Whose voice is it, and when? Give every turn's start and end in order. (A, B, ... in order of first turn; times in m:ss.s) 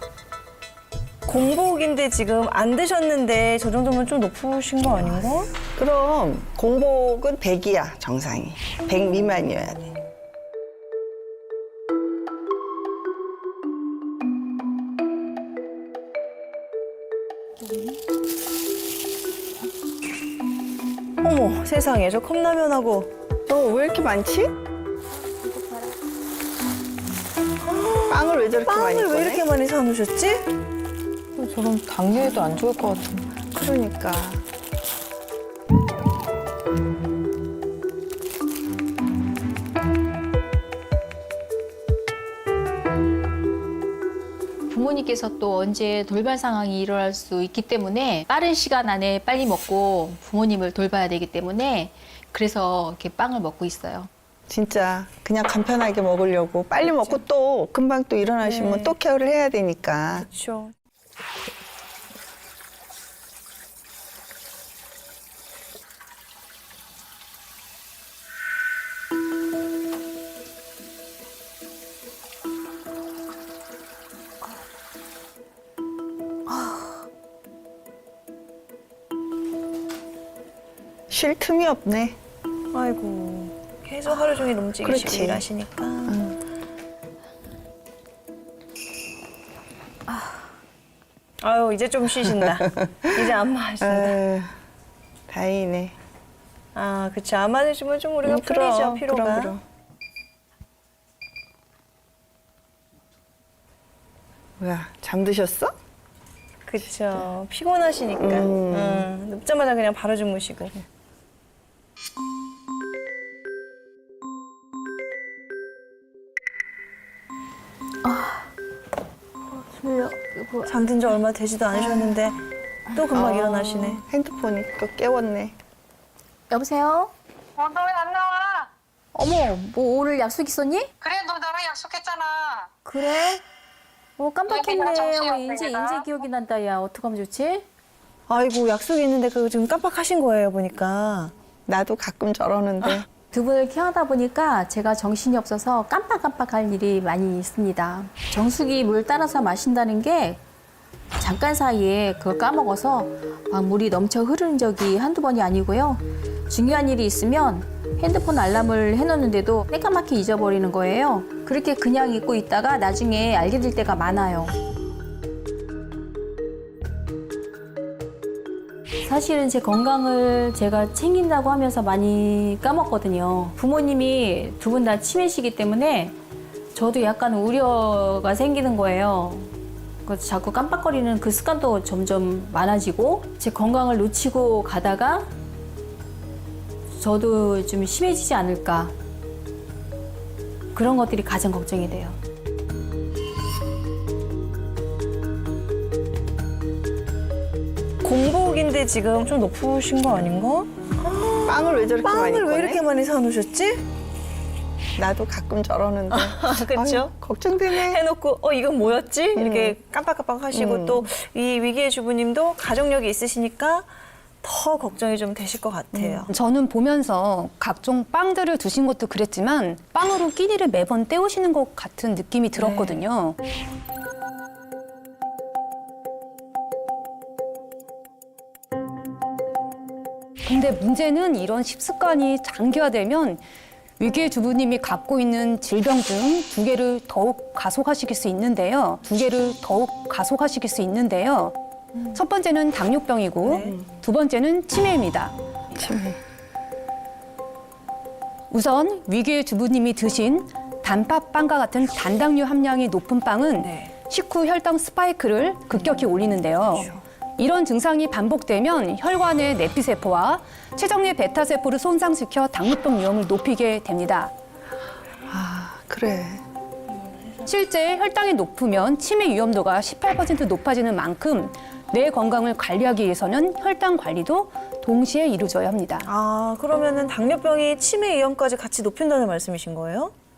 0:01.2-0:05.5 A
0:05.6-0:09.9 B
0:21.2-0:23.1 A
0:23.5-0:24.5 B
0:25.4-0:25.9 C
0:27.6-0:30.4 A
0:28.1-0:29.4 B
0:31.4-0:33.4 D
0:33.5-0:34.4 B
0:44.7-0:54.1 C
0:54.5-1:00.3 B
0:56.8-0:57.2 A
0:58.4-0:59.0 A
1:00.1-1:00.7 A
1:21.1-1:22.2 B
1:22.7-1:26.2 A
1:24.8-1:25.4 B
1:26.1-1:26.3 B
1:31.4-1:34.2 A
1:33.8-1:34.5 B
1:35.3-1:36.0 B
1:36.7-1:39.6 A
1:38.2-1:39.6 B
1:44.6-1:45.7 B
1:46.6-1:50.7 A
1:48.2-1:49.1 B
1:58.0-1:58.4 C
1:59.7-2:00.7 C
2:00.6-2:02.4 A
2:02.9-2:04.0 A
2:03.1-2:05.5 B
2:06.5-2:07.1 C
2:07.6-2:08.7 E
2:09.1-2:10.9 C
2:11.0-2:12.7 E
2:12.8-2:13.4 C
2:14.2-2:17.6 C
2:14.5-2:15.9 E
2:18.3-2:21.3 A
2:21.7-2:23.0 B
2:23.3-2:30.4 C
2:31.2-2:44.5 C
2:49.0-2:56.2 C
2:56.7-2:59.5 C
3:00.0-3:05.3 C
3:06.9-3:08.9 C
3:10.7-3:12.2 C
3:18.0-3:23.8 A
3:21.4-3:22.8 B
3:25.0-3:28.0 B
3:26.1-3:33.9 A
3:29.3-3:29.7 B
3:30.5-3:31.1 B
3:34.4-3:36.3 A
3:35.9-3:36.2 B
3:36.3-3:43.4 F
3:42.6-3:43.0 A
3:50.4-3:53.4 F
3:54.0-4:05.3 F
4:03.4-4:03.7 A
4:05.8-4:06.2 B
4:08.5-4:24.3 F
4:25.3-4:26.4 B
4:27.4-4:36.1 F
4:36.0-4:40.1 A